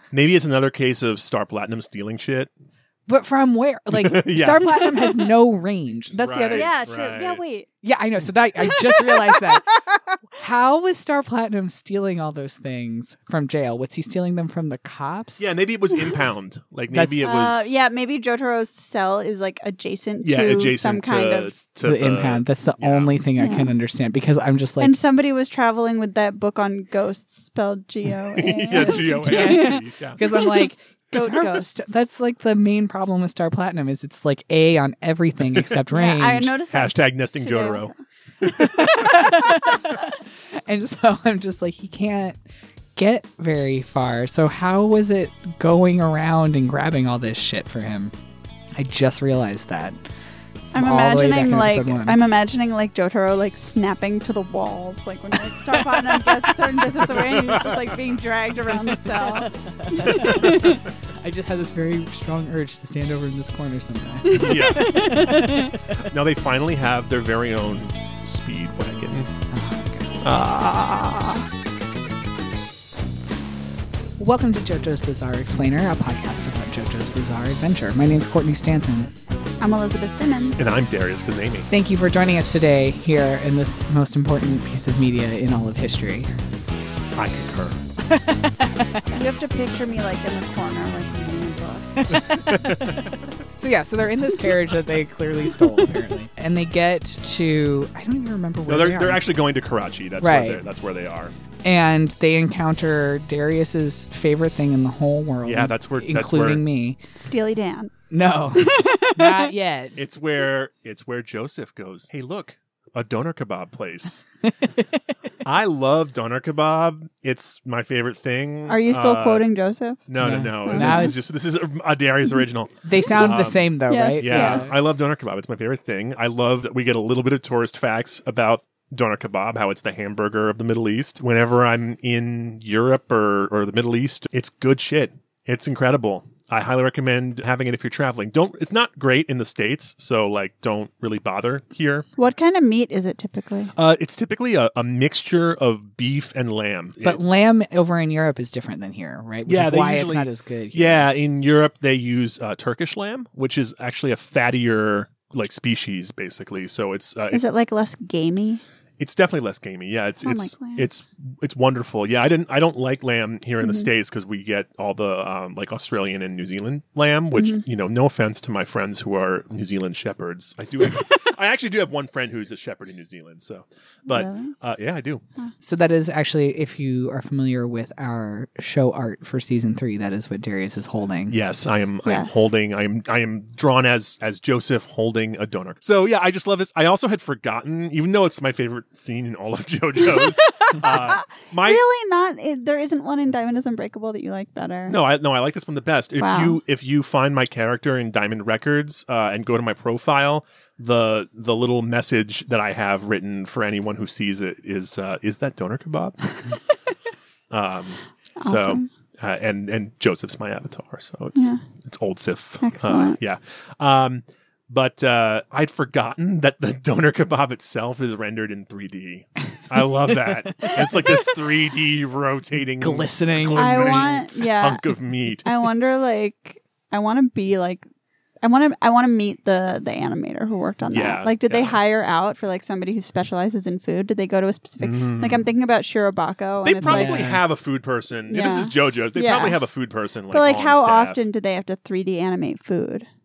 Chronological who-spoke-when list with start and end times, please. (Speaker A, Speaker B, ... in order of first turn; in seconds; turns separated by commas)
Speaker A: 0.1-2.5, Speaker B: 3.1-6.7, Speaker A: 3.9-4.9, Speaker A: 6.2-7.4, Speaker C: 6.5-7.7, Speaker B: 7.8-9.7, Speaker C: 8.6-10.0, Speaker B: 10.3-15.5, Speaker A: 15.4-17.8, Speaker B: 16.9-17.3, Speaker C: 17.2-21.6, Speaker A: 20.2-23.1, Speaker B: 21.8-24.9, Speaker C: 23.4-23.7, Speaker C: 24.8-31.9, Speaker A: 28.3-30.2, Speaker B: 28.8-36.5, Speaker C: 35.9-39.4, Speaker A: 36.7-37.9, Speaker B: 38.4-42.4, Speaker B: 43.0-48.1, Speaker B: 48.8-50.0, Speaker B: 50.7-52.2, Speaker C: 50.7-60.9, Speaker B: 55.7-56.9, Speaker A: 57.1-58.0, Speaker B: 59.1-66.0, Speaker A: 60.0-60.7, Speaker C: 64.3-65.7, Speaker A: 64.3-65.2, Speaker A: 66.0-69.3, Speaker B: 69.5-70.2, Speaker A: 70.2-71.0, Speaker C: 70.8-71.3, Speaker B: 74.2-79.1, Speaker C: 79.6-80.6, Speaker A: 80.6-81.7, Speaker B: 81.7-86.3, Speaker A: 87.2-87.8, Speaker B: 88.1-89.1, Speaker C: 89.1-92.1, Speaker B: 92.0-99.2, Speaker A: 92.1-93.1, Speaker A: 98.7-101.3, Speaker B: 100.2-100.6, Speaker B: 101.6-107.0, Speaker A: 105.4-106.6, Speaker C: 107.2-107.9, Speaker B: 108.1-110.0, Speaker C: 108.5-109.5, Speaker A: 110.0-114.3, Speaker B: 114.5-115.0, Speaker A: 115.4-119.5, Speaker C: 118.7-120.1, Speaker A: 120.1-123.7, Speaker B: 120.2-121.2, Speaker C: 120.7-121.2, Speaker B: 122.8-124.7, Speaker C: 123.9-124.7, Speaker A: 124.2-142.1, Speaker C: 142.2-143.7, Speaker A: 143.7-147.2, Speaker B: 147.0-151.1, Speaker A: 149.5-157.4, Speaker C: 157.3-158.6, Speaker A: 159.0-175.2, Speaker C: 160.2-160.9, Speaker C: 163.6-163.9, Speaker C: 167.3-167.6, Speaker C: 174.1-174.5, Speaker B: 175.6-181.3, Speaker A: 181.3-191.8, Speaker C: 182.1-182.3, Speaker C: 190.6-195.0, Speaker A: 194.9-206.3, Speaker C: 196.2-196.6, Speaker A: 207.5-225.5, Speaker C: 208.4-208.9, Speaker C: 212.6-213.2, Speaker B: 220.1-221.2, Speaker B: 222.8-224.1, Speaker C: 223.6-224.9, Speaker C: 225.4-227.8, Speaker C: 228.4-237.4, Speaker A: 230.9-231.8, Speaker A: 234.8-235.4, Speaker A: 236.6-241.3, Speaker B: 236.8-237.4, Speaker C: 238.3-239.6, Speaker C: 240.3-243.1